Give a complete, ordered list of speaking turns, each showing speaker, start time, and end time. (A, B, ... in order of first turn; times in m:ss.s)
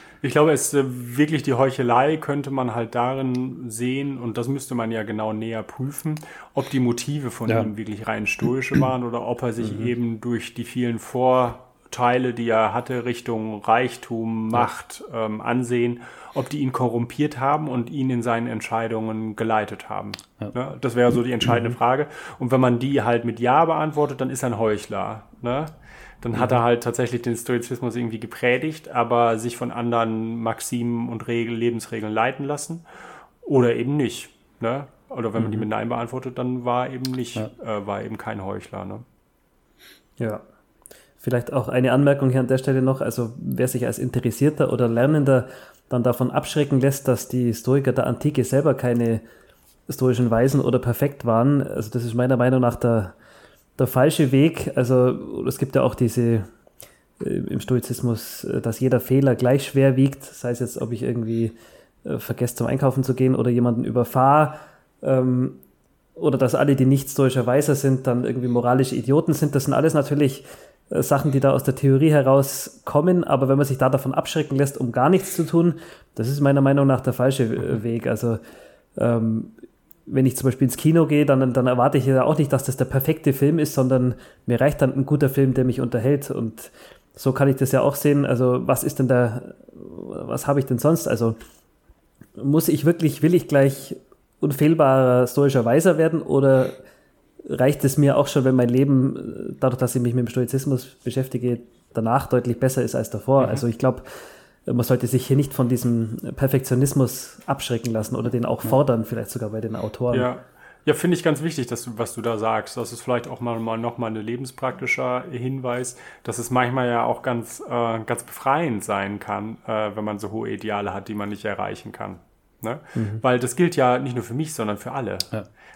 0:00.2-0:32.8 A
0:09.6-0:09.9 B
0:33.4-0:39.0 A
0:41.2-0:49.2 B
0:49.9-0:53.1 B
0:53.8-0:56.5 B
0:57.2-1:05.6 B
1:06.2-1:18.4 B
1:19.0-1:19.6 B
1:20.1-1:31.4 B
1:32.4-1:36.8 B
1:37.4-1:44.0 B
1:43.4-1:43.6 A
1:44.6-1:50.3 B
1:50.1-2:05.3 A
2:02.9-2:03.2 B